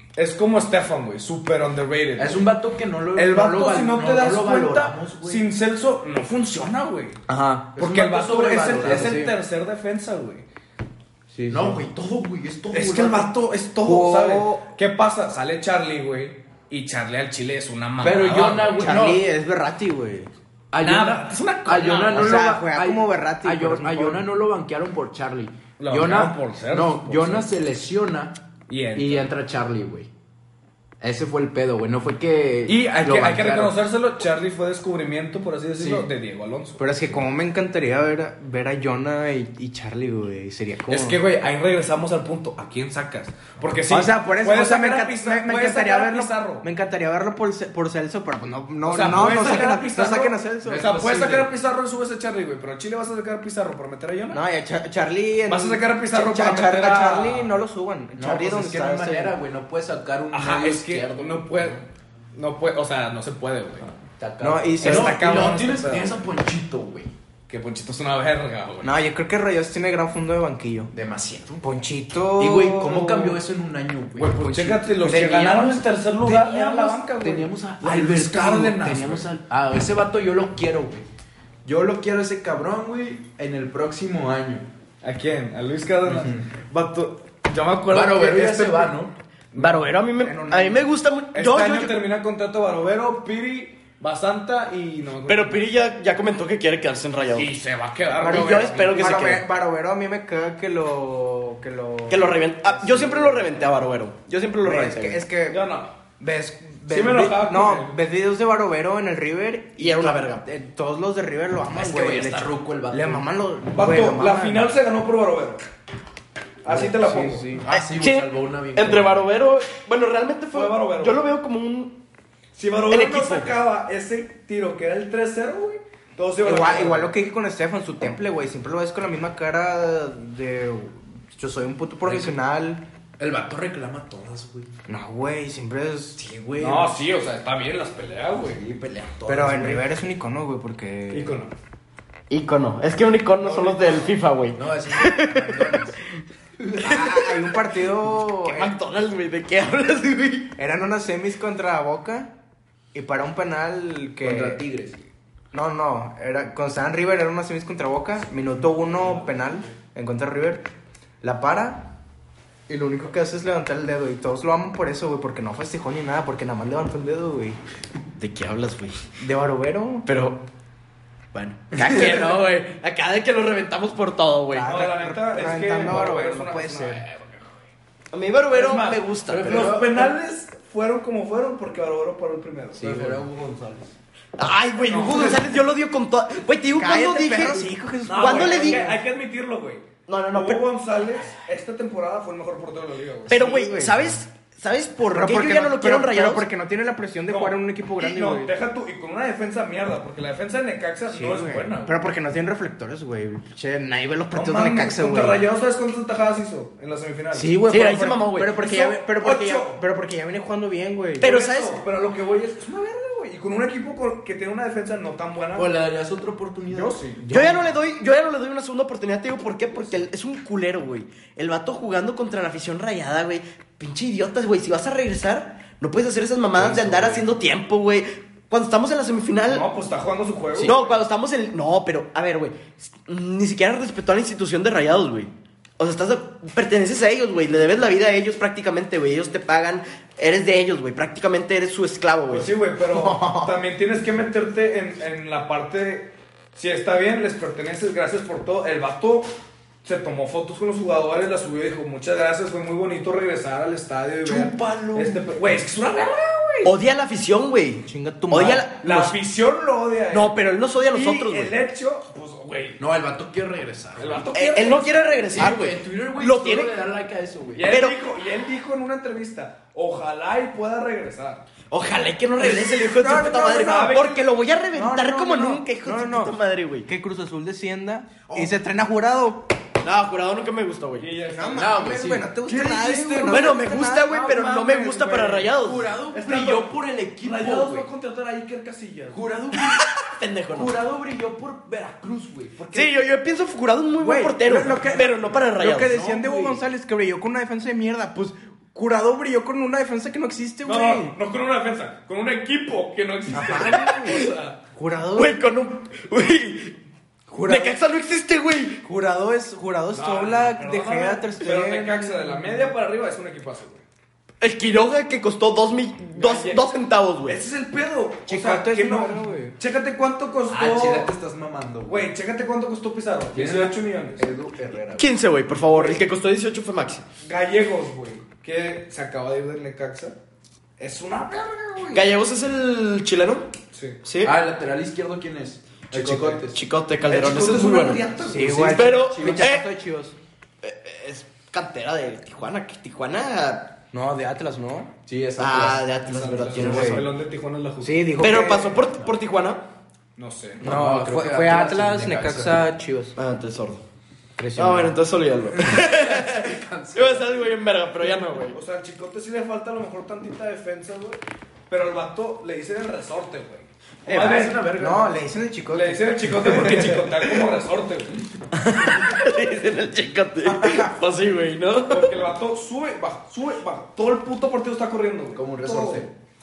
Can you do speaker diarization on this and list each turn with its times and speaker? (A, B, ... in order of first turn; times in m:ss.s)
0:00.2-0:02.5 A
0:02.2-0:05.4 B
0:03.2-0:07.2 A
0:07.3-0:09.3 B
0:07.7-0:10.4 A
0:08.8-0:09.3 C
0:11.3-0:11.8 C
0:11.4-0:13.3 B
0:12.7-0:19.0 A
0:13.8-0:14.7 C
0:18.0-0:19.3 B
0:18.8-0:20.3 C
0:20.7-0:28.4 B
0:20.8-0:22.5 A
0:22.1-0:24.2 C
0:25.8-0:27.5 A
0:28.7-0:29.3 A
0:28.9-0:30.1 B
0:31.0-0:33.8 B
0:32.6-0:37.2 A
0:35.8-0:36.1 B
0:36.8-0:41.2 C
0:40.9-0:46.6 A
0:43.9-0:50.8 C
0:48.9-0:54.4 A
0:50.6-0:51.5 B
0:54.3-0:59.3 C
0:55.5-0:57.5 A
0:58.2-1:01.8 B
1:00.3-1:01.8 A
1:02.3-1:03.9 A
1:04.2-1:07.1 B
1:04.4-1:06.0 C
1:04.8-1:06.2 A
1:07.5-1:09.0 A
1:08.8-1:10.9 C
1:10.9-1:11.7 B
1:11.6-1:13.4 C
1:12.4-1:21.0 B
1:14.2-1:19.3 A
1:21.6-1:24.7 B
1:25.0-1:28.9 A
1:26.0-1:26.5 B
1:27.9-1:29.1 B
1:29.5-1:29.9 A
1:29.5-1:32.0 D
1:30.2-1:30.9 C
1:31.3-1:35.6 A
1:35.3-1:37.5 D
1:37.3-1:39.3 A
1:38.2-1:43.5 C
1:38.2-1:39.4 D
1:42.1-1:45.2 D
1:44.6-1:45.6 C
1:45.5-1:45.9 A
1:46.2-1:54.7 C
1:46.9-1:48.0 A
1:49.8-1:50.4 D
1:51.7-1:53.2 B
1:53.7-1:55.6 A
1:56.6-1:57.5 A
1:56.7-1:57.4 C
1:56.7-1:59.3 B
1:57.7-2:02.0 D
2:00.5-2:01.2 A
2:02.5-2:07.1 A
2:02.9-2:03.6 D
2:06.4-2:12.8 C
2:12.0-2:12.3 B
2:13.2-2:14.7 B
2:14.9-2:16.2 C
2:16.2-2:16.9 B
2:16.6-2:18.8 A
2:18.6-2:19.8 B
2:19.3-2:21.4 C
2:21.1-2:21.5 A
2:22.3-2:26.0 D
2:23.4-2:24.1 A
2:24.5-2:26.0 B
2:26.6-2:27.0 B
2:26.8-2:28.8 C
2:28.2-2:30.5 D
2:30.6-2:32.3 C
2:32.9-2:34.6 C
2:34.2-2:35.1 B
2:35.5-2:40.7 C
2:41.2-2:41.9 C
2:42.7-2:47.6 C
2:48.2-2:49.0 D
2:49.2-2:50.1 C
2:50.0-2:50.4 D
2:51.3-2:54.7 D
2:54.5-2:57.0 C
2:54.6-2:57.4 A
2:58.1-3:00.1 D
2:58.5-3:03.2 A
2:59.3-3:00.1 B
3:02.7-3:03.9 B
3:04.4-3:08.9 D
3:04.8-3:05.5 A
3:06.7-3:09.0 C
3:08.0-3:13.4 A
3:10.1-3:10.6 D
3:13.3-3:14.2 C
3:13.3-3:16.4 D
3:15.1-3:18.5 C
3:17.3-3:21.9 A
3:21.1-3:25.5 C
3:24.3-3:27.6 A
3:27.3-3:31.3 C
3:27.7-3:28.6 D
3:28.6-3:29.8 A
3:31.2-3:31.8 D
3:31.2-3:35.7 A
3:35.5-3:37.6 B
3:36.7-3:37.2 A
3:37.3-3:37.6 C
3:37.3-3:49.7 D
3:46.5-3:47.3 A
3:49.5-3:51.0 A
3:50.6-4:02.5 D
4:02.3-4:09.3 A
4:02.9-4:03.5 C
4:09.8-4:16.7 A
4:14.2-4:15.7 B
4:16.6-4:19.1 D
4:17.8-4:18.6 C
4:18.4-4:22.8 A
4:20.1-4:21.5 D
4:22.8-4:24.3 B
4:24.0-4:25.4 A
4:24.3-4:26.7 D
4:25.3-4:27.7 B
4:27.5-4:31.4 A
4:27.6-4:28.0 D
4:31.7-4:36.9 D
4:32.4-4:34.0 C
4:33.4-4:34.2 A
4:34.7-4:36.4 C
4:36.9-4:39.4 C
4:38.2-4:38.5 B
4:39.8-4:41.1 D
4:41.0-4:45.5 A
4:41.3-4:44.4 C
4:41.6-4:42.3 B
4:43.3-4:45.9 D
4:45.5-4:47.9 B
4:46.1-4:49.3 A
4:49.1-4:49.8 B
4:49.6-4:50.7 D
4:50.5-4:52.7 B
4:52.6-4:52.9 A
4:52.7-4:56.0 D
4:54.0-5:01.2 C
4:55.9-4:56.6 B
5:00.6-5:04.6 A
5:03.3-5:05.4 C
5:05.1-5:06.8 D
5:07.3-5:07.8 C
5:07.4-5:08.8 D
5:08.8-5:12.7 C
5:09.9-5:13.8 A
5:14.4-5:17.4 D
5:16.1-5:16.7 A
5:17.2-5:21.1 A
5:18.3-5:19.6 C
5:20.5-5:22.1 B
5:21.8-5:24.3 A
5:23.3-5:25.1 B
5:25.0-5:27.0 D
5:25.7-5:26.0 A
5:27.2-5:30.2 A
5:30.8-5:32.2 A
5:31.9-5:33.5 D
5:33.7-5:34.0 A
5:34.0-5:34.4 D
5:34.2-5:36.6 B
5:35.9-5:38.0 D
5:37.0-5:38.8 A
5:38.2-5:40.2 C
5:38.6-5:39.7 D
5:39.1-5:39.4 B
5:40.6-5:43.8 D
5:43.9-5:44.9 C
5:45.0-5:45.9 B
5:45.4-5:47.0 D
5:46.0-5:48.2 A
5:46.6-5:47.1 C
5:47.8-5:48.8 C
5:48.2-5:49.6 D
5:50.2-5:50.8 A
5:50.6-5:52.7 B
5:50.6-5:53.2 C
5:53.2-5:53.8 D
5:54.4-5:55.0 C
5:54.5-5:58.6 D
5:55.6-5:57.5 B
5:58.5-6:04.6 A
6:04.0-6:05.1 B
6:04.7-6:07.0 C
6:05.7-6:08.3 A
6:08.5-6:12.1 D
6:10.5-6:10.9 C
6:11.9-6:16.1 A
6:15.3-6:16.1 B